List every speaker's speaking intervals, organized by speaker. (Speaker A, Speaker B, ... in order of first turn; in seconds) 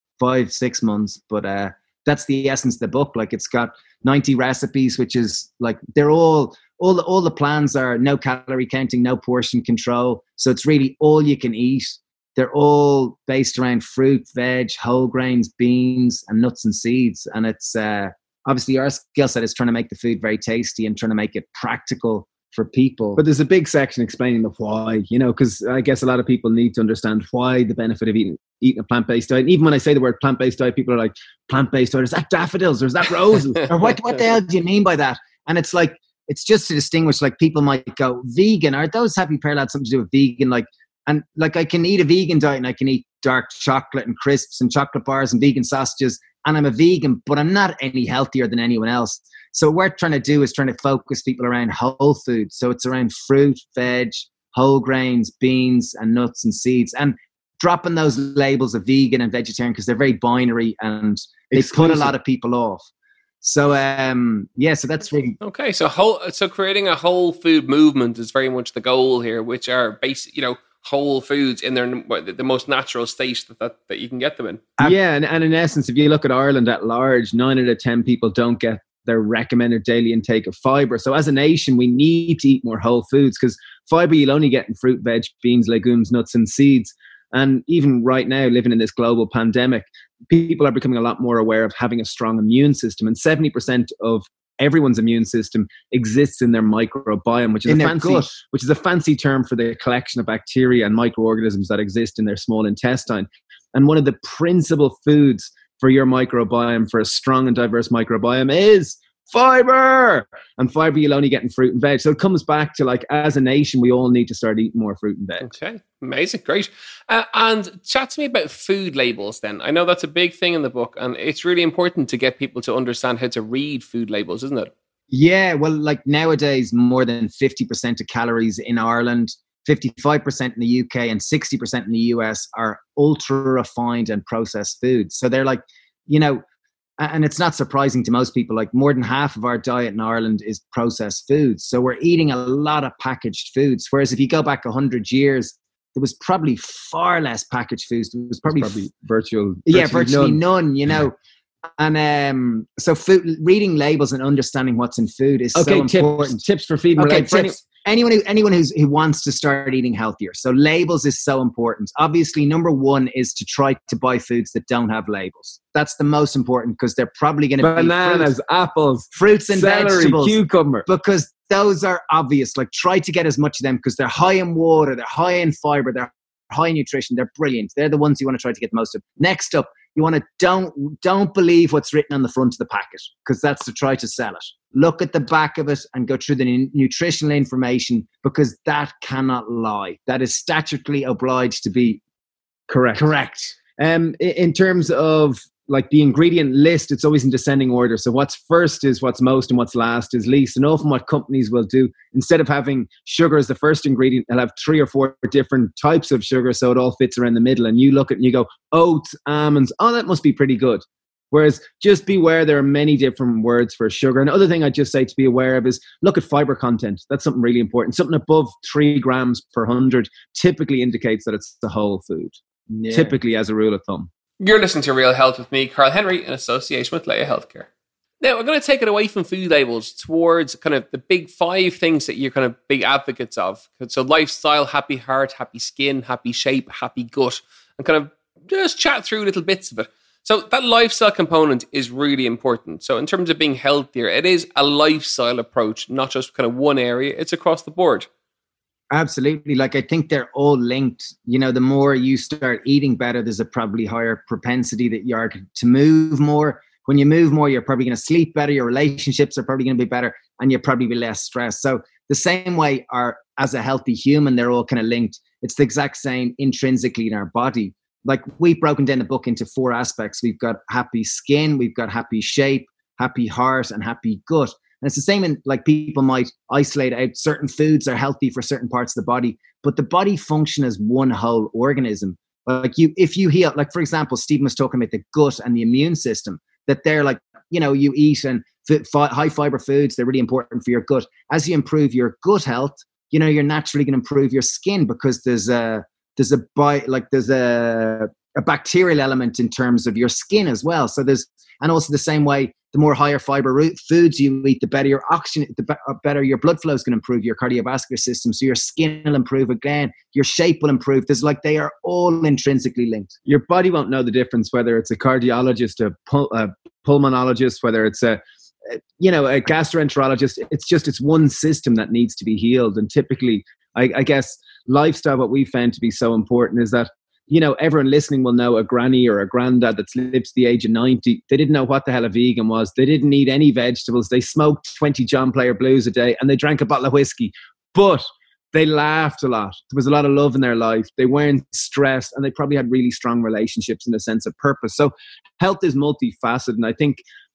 Speaker A: 0.2-23.2, 33.6-62.9, 63.4-65.4, 97.7-98.3, 125.1-136.4, 137.0-148.8, 149.7-151.2, 151.8-156.4, 157.0-168.3, 169.1-192.0, 192.9-193.6, 222.7-223.1, 248.9-313.1
Speaker B: 23.1-33.6, 61.5-62.1, 74.8-115.5, 148.5-150.4, 155.5-157.6, 167.6-170.8, 192.7-222.3, 222.9-224.1, 313.2-347.0
Speaker C: 65.4-74.7, 115.4-124.7, 224.4-227.7, 228.2-248.1